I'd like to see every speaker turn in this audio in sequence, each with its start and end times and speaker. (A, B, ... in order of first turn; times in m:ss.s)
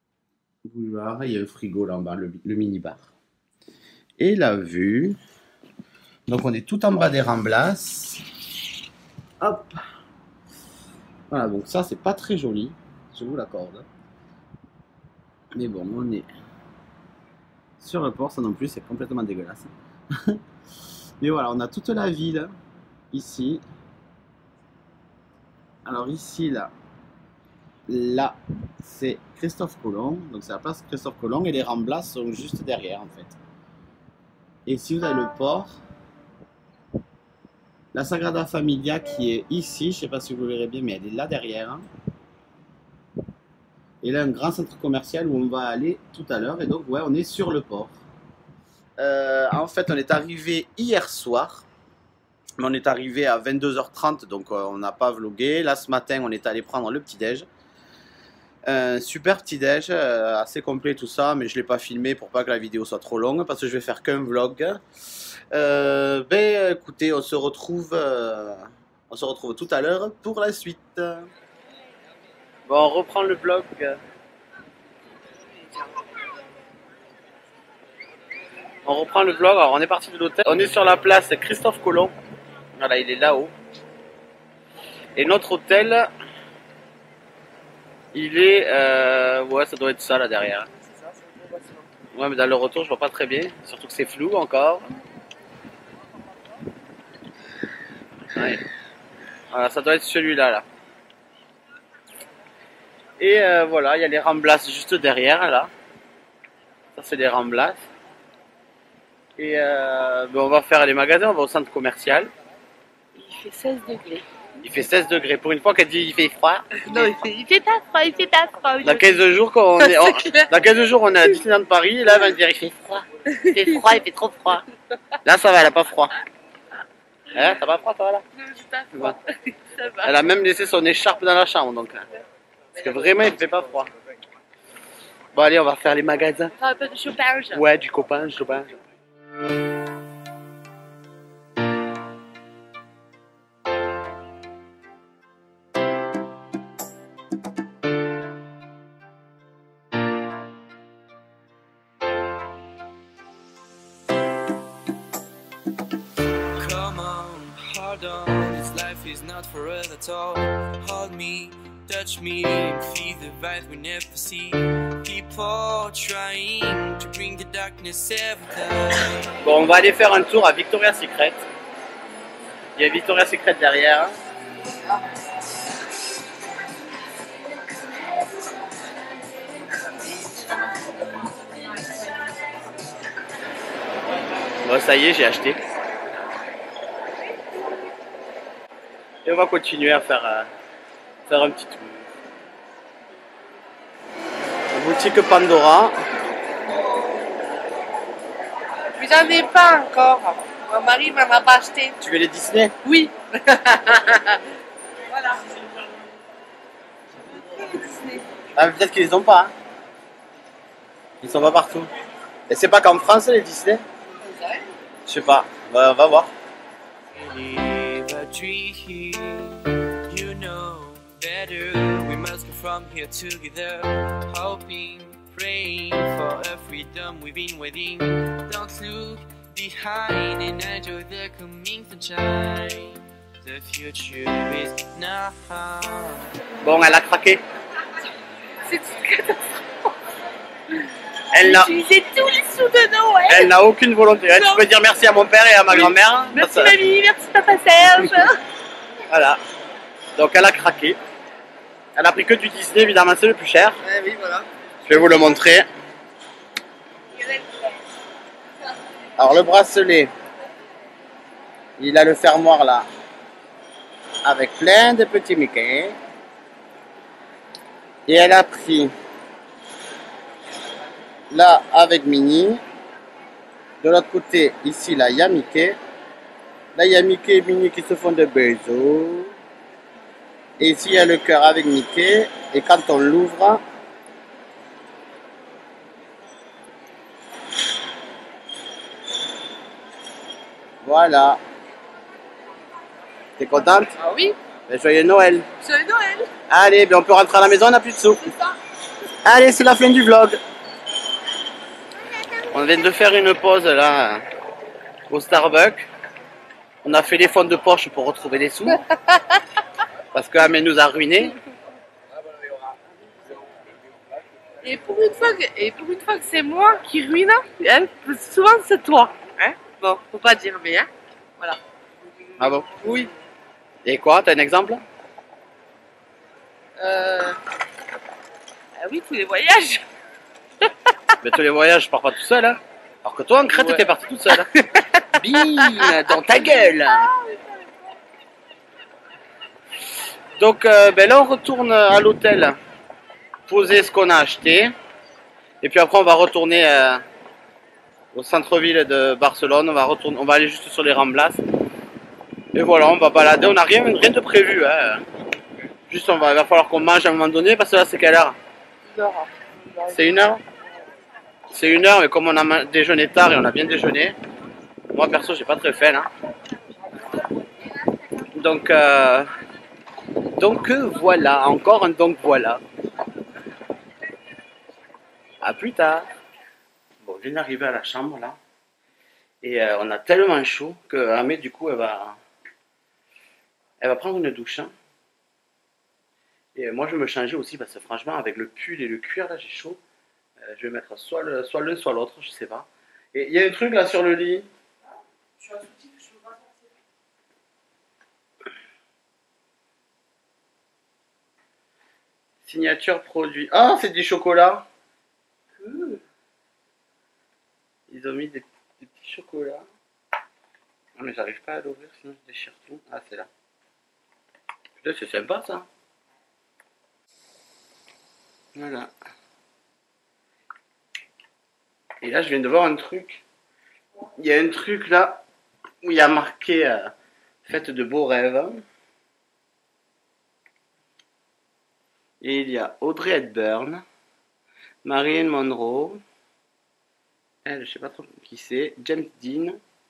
0:00.6-0:03.1 A
0:04.2-0:05.2 A
0:06.3-0:08.2 A
0:09.4-0:09.8 A
0:11.3-0:13.8 A
0:15.5-0:16.3 A
0:17.8-0:20.4 A
0:21.2-0:22.6 A
0:23.1-0:23.6 A
0:25.8-0:26.7 A
0:27.9-0:33.4 A
0:34.6-0:35.8 A
0:37.9-0:41.9 A
0:44.0-0:48.0 A
0:49.0-0:51.6 A
0:52.6-0:57.5 A
0:58.6-1:04.8 A
1:05.5-1:11.3 A
1:12.7-1:14.0 A
1:18.8-1:22.1 A
1:22.8-1:23.5 A
1:25.2-1:26.1 A
1:28.1-1:30.7 A
1:30.9-1:31.8 B
1:32.1-1:35.0 A
1:38.3-1:38.6 A
1:39.5-1:40.6 A
1:43.2-1:45.7 A
1:47.0-1:47.8 A
1:49.4-1:52.3 A
1:53.1-1:54.2 B
1:54.6-1:56.9 A
1:56.8-1:59.1 B
1:58.8-2:04.6 A
1:59.8-2:00.5 B
2:03.3-2:03.8 B
2:05.2-2:06.1 A
2:07.3-2:08.2 A
2:08.3-2:10.1 B
2:10.0-2:12.0 A
2:12.7-2:13.9 A
2:15.3-2:16.5 A
2:16.6-2:17.6 B
2:17.5-2:18.8 A
2:36.6-2:49.4 C
2:49.4-2:51.4 A
2:52.8-2:54.2 A
3:04.6-3:05.6 A
3:09.2-3:10.5 A
3:11.3-3:12.0 A
3:14.7-3:16.0 A
3:19.0-3:22.0 B
3:22.0-3:22.7 A
3:22.8-3:24.4 B
3:27.2-3:28.2 B
3:28.6-3:29.5 A
3:31.2-3:31.9 A
3:32.5-3:33.8 A
3:35.0-3:36.3 A
3:37.1-3:56.4 C
3:56.6-3:57.4 A
3:58.6-3:59.9 B
4:01.3-4:01.7 A
4:01.4-4:03.5 B
4:03.3-4:06.7 A
4:04.3-4:04.6 B
4:05.7-4:08.4 B
4:09.1-4:09.4 A
4:10.2-4:11.0 A
4:12.0-4:13.8 A
4:13.8-4:14.4 B
4:14.8-4:15.6 A
4:19.2-4:20.1 A
4:21.8-4:22.9 A
4:24.2-4:26.0 A
4:28.1-4:28.9 A
4:31.3-4:32.6 A
4:33.8-4:35.8 A
4:36.7-4:39.3 A
4:40.6-4:43.6 A
4:50.8-4:51.4 A
4:53.4-4:53.9 A
4:54.0-4:54.4 B
4:54.7-4:55.5 A
4:55.6-4:56.3 B
4:56.5-4:58.2 A
4:58.2-4:58.5 B
4:59.2-5:00.4 A
5:02.5-5:04.2 A
5:05.1-5:05.9 A
5:06.8-5:08.8 A
5:10.1-5:11.3 A
5:14.6-5:21.6 B
5:22.4-5:22.7 A
5:22.6-5:23.1 B
5:23.8-5:24.8 A
5:26.8-5:27.4 B
5:28.8-5:29.8 B
5:31.2-5:34.5 A
5:33.6-5:33.8 B
5:35.1-5:37.1 A
5:35.5-5:37.7 B
5:40.4-5:42.6 A
5:43.5-5:44.7 A
5:45.6-5:47.0 A
5:48.1-5:51.4 A
5:52.5-5:55.0 A
5:55.9-5:58.4 A
5:58.9-6:00.2 B
5:59.9-6:00.4 A
6:01.5-6:04.2 A
6:04.9-6:06.1 A
6:08.3-6:09.3 A
6:10.4-6:12.6 A
6:15.4-6:16.1 A
6:17.0-6:18.4 A
6:19.4-6:22.2 A
6:23.8-6:24.7 A
6:26.5-6:29.8 A
6:30.4-6:34.5 A
6:35.4-6:36.2 B
6:42.4-6:44.6 A
6:45.6-6:46.0 A
6:47.9-6:49.6 A
6:51.0-6:53.3 A
6:54.8-6:55.7 A
6:58.5-6:58.9 A
7:02.0-7:03.2 A
7:04.2-7:05.2 A
7:05.8-7:06.9 A
7:07.4-7:08.6 A
7:12.2-7:13.8 A
7:14.8-7:16.0 A
7:17.4-7:19.6 A